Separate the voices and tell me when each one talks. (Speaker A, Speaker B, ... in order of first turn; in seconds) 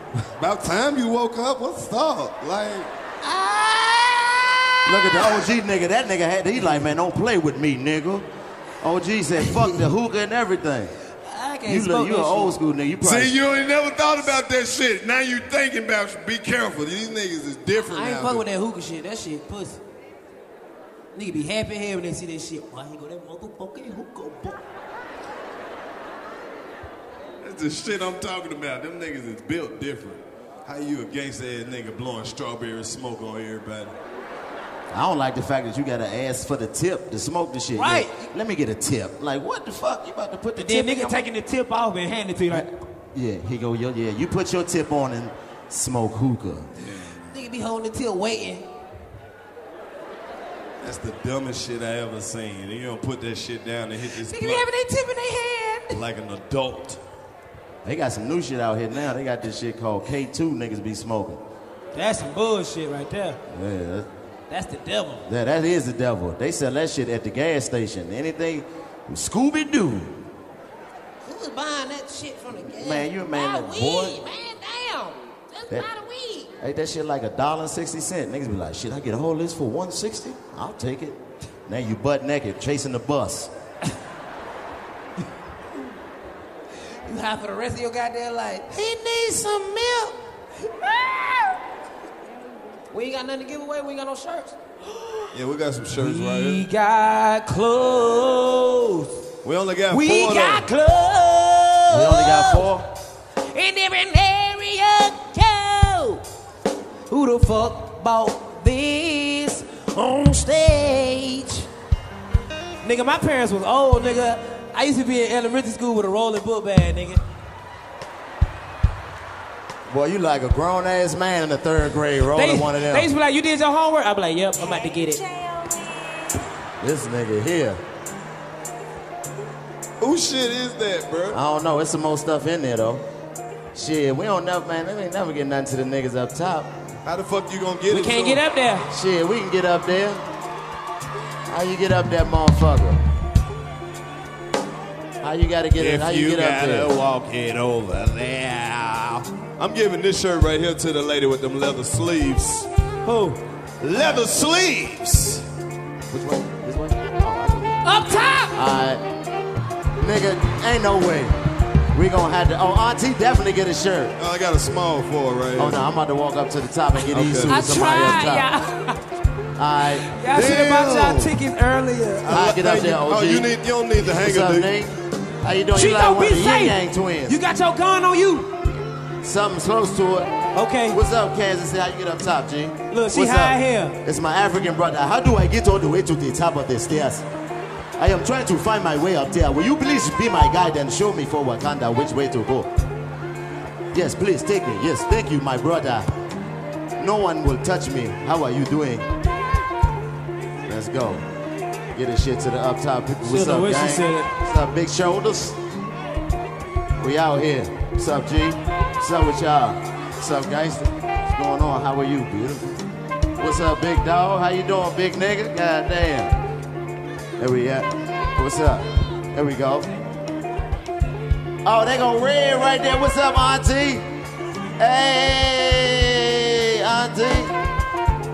Speaker A: 0.4-2.9, 13.0-18.4, 27.4-33.9, 46.8-47.2, 50.8-54.7, 55.9-57.0, 95.3-96.7, 99.4-100.7, 130.0-131.4, 137.1-138.4, 145.8-152.7, 153.8-155.4, 164.2-165.8, 167.1-167.6, 170.3-171.3, 172.2-174.7
Speaker B: 3.2-5.4, 9.5-9.8, 11.3-12.6, 17.7-19.8, 21.1-24.6, 37.8-38.3, 40.6-42.7, 47.3-48.7, 54.2-56.0, 61.9-63.4, 64.5-65.2, 71.2-76.5, 87.1-90.2, 90.8-91.3, 92.9-95.3, 96.0-99.2, 99.9-102.7, 103.5-106.2, 107.1-111.7, 112.8-117.2, 122.3-125.5, 137.9-138.9, 153.1-153.4, 157.8-158.6, 167.4-169.0, 170.2-172.8, 175.7-178.5, 180.5-181.0, 182.9-184.0, 203.2-204.3
Speaker C: 4.8-8.3, 8.8-10.9, 11.7-13.4, 34.9-41.2, 42.5-46.7, 57.9-61.4, 63.5-64.1, 65.3-70.2, 72.7-74.2, 76.6-83.5, 101.9-102.9, 119.9-123.1, 126.8-127.8, 131.3-133.1, 133.7-136.8, 138.9-140.2, 141.5-143.0, 145.2-146.9, 156.1-157.8, 158.5-159.0, 160.0-161.4, 161.9-164.2, 165.6-168.5, 169.6-170.1, 172.3-173.5, 174.1-177.4, 179.2-180.4, 180.9-187.3, 188.0-192.7, 193.9-196.1, 197.0-199.1, 200.7-201.2, 201.9-205.6, 207.0-212.8, 213.4-216.3, 217.4-219.9, 221.6-224.1, 224.8-227.6